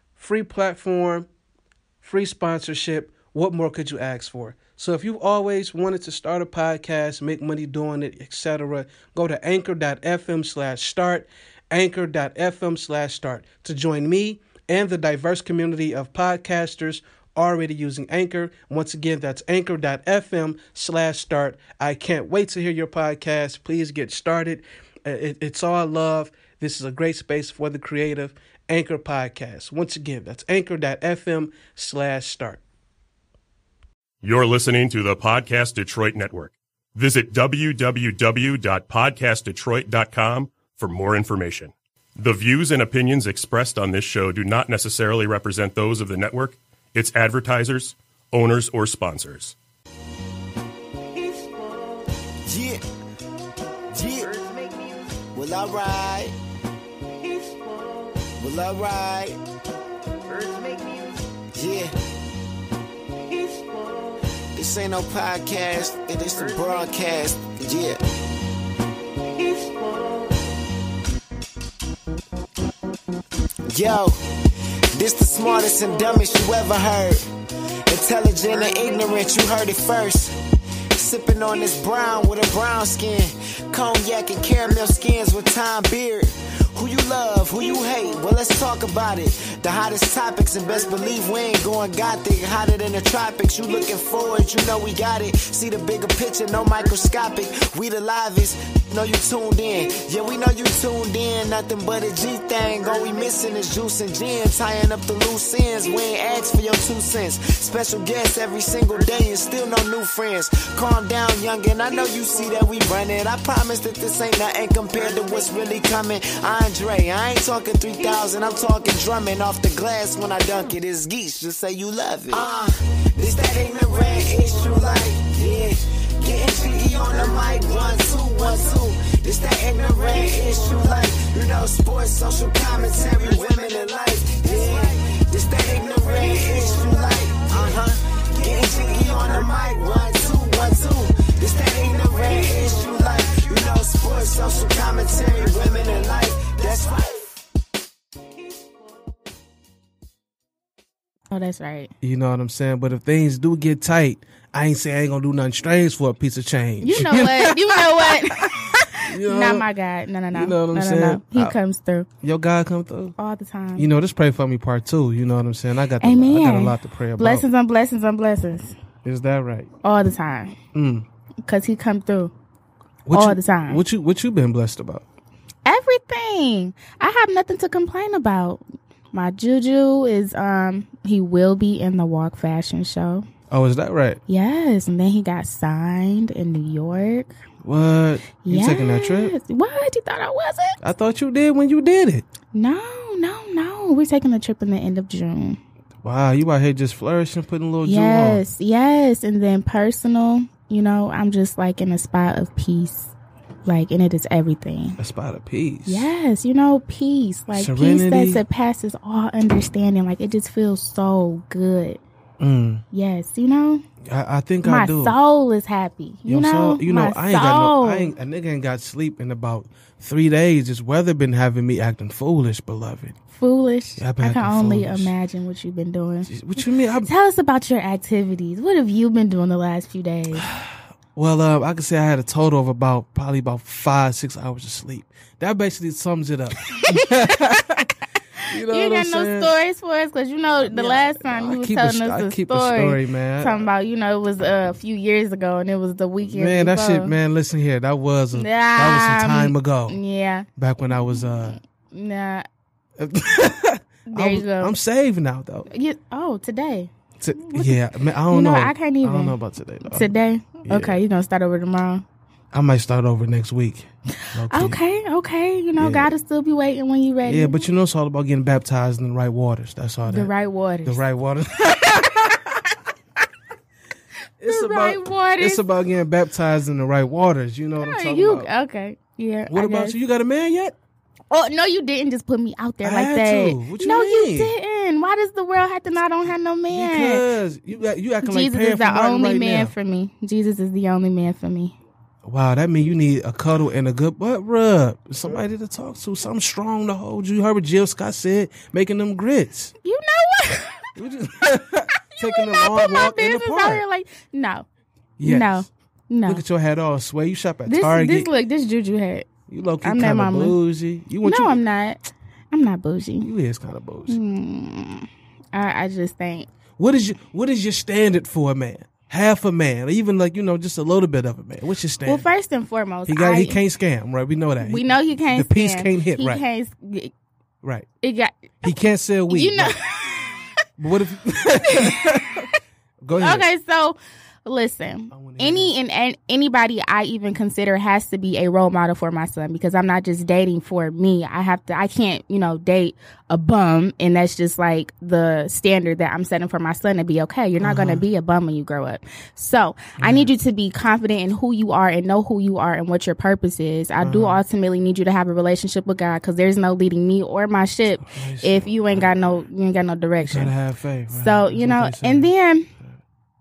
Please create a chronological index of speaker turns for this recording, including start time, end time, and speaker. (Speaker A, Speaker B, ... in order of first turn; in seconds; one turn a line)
Speaker A: 0.2-1.3
Speaker A: 2.0-32.6
Speaker B: 34.2-49.5
Speaker C: 52.5-52.8
Speaker C: 53.9-54.4
Speaker C: 55.3-56.4
Speaker C: 58.4-59.4
Speaker C: 61.5-62.0
Speaker C: 64.5-68.0
Speaker C: 73.7-74.2
Speaker C: 74.9-77.3
Speaker C: 77.9-80.4
Speaker C: 81.0-147.3
Speaker D: 151.3-151.9
Speaker A: 152.0-159.7
Speaker D: 156.8-162.1
Speaker A: 160.3-161.6
Speaker A: 162.2-163.2
Speaker D: 163.2-163.9
Speaker A: 163.8-167.4
Speaker D: 166.0-168.8
Speaker A: 169.1-169.7
Speaker D: 169.8-170.6
Speaker A: 170.7-171.1
Speaker D: 171.5-172.3
Speaker A: 173.1-175.1
Speaker D: 173.1-173.8
Speaker D: 175.7-183.3
Speaker A: 183.5-184.2
Speaker D: 184.3-187.3
Speaker A: 187.6-189.3
Speaker D: 188.4-190.8
Speaker A: 190.8-192.3
Speaker D: 192.5-195.6
Speaker A: 196.0-198.4
Speaker D: 197.8-203.1
Speaker D: 203.7-205.0
Speaker A: 205.0-206.1
Speaker D: 205.9-212.0
Speaker A: 207.5-208.4
Speaker A: 212.4-212.8
Speaker D: 212.9-213.8
Speaker A: 214.0-215.2
Speaker D: 214.6-218.1
Speaker A: 216.3-223.2
Speaker D: 223.3-226.3
Speaker A: 224.0-225.1
Speaker A: 226.3-227.1
Speaker D: 227.1-230.5
Speaker A: 230.3-237.9
Speaker D: 236.7-237.8
Speaker D: 238.4-247.2
Speaker A: 238.5-239.6
Speaker A: 240.6-243.7
Speaker A: 246.2-250.0
Speaker D: 248.3-250.5
Speaker A: 250.6-251.6
Speaker D: 251.1-252.5
Speaker A: 253.0-255.7
Speaker D: 254.1-254.8
Speaker D: 255.7-262.0
Speaker A: 257.2-260.1
Speaker A: 260.6-261.0
Speaker A: 262.5-264.8
Speaker D: 264.5-267.6
Speaker A: 265.8-266.1
Speaker A: 267.2-270.3
Speaker D: 270.1-271.0
Speaker A: 270.8-272.8
Speaker A: 274.4-278.5
Speaker D: 274.5-275.6
Speaker D: 277.8-280.0
Speaker A: 279.5-280.8
Speaker D: 281.3-287.2
Speaker A: 282.8-284.5
Speaker A: 286.7-289.7
Speaker D: 288.2-291.8
Speaker A: 292.2-299.7
Speaker D: 299.8-300.9
Speaker A: 301.0-303.8
Speaker D: 302.1-304.7
Speaker A: 305.2-305.7
Speaker D: 305.2-306.4
Speaker A: 306.3-308.3
Speaker D: 307.7-309.3
Speaker A: 309.5-311.6
Speaker D: 309.8-310.6
Speaker D: 311.2-313.3
Speaker A: 313.2-314.2
Speaker D: 314.1-316.5
Speaker A: 316.8-322.3
Speaker D: 322.1-323.6
Speaker A: 323.1-326.4
Speaker D: 324.6-327.1
Speaker D: 328.0-328.8
Speaker A: 328.6-329.8
Speaker D: 329.3-330.4
Speaker A: 330.8-332.5
Speaker D: 331.7-332.5
Speaker A: 333.0-333.5
Speaker D: 333.1-360.5
Speaker A: 335.1-335.7
Speaker A: 347.6-348.1
Speaker A: 350.0-350.3
Speaker A: 354.0-354.4
Speaker A: 358.0-359.1
Speaker A: 360.2-362.3
Speaker D: 361.1-362.7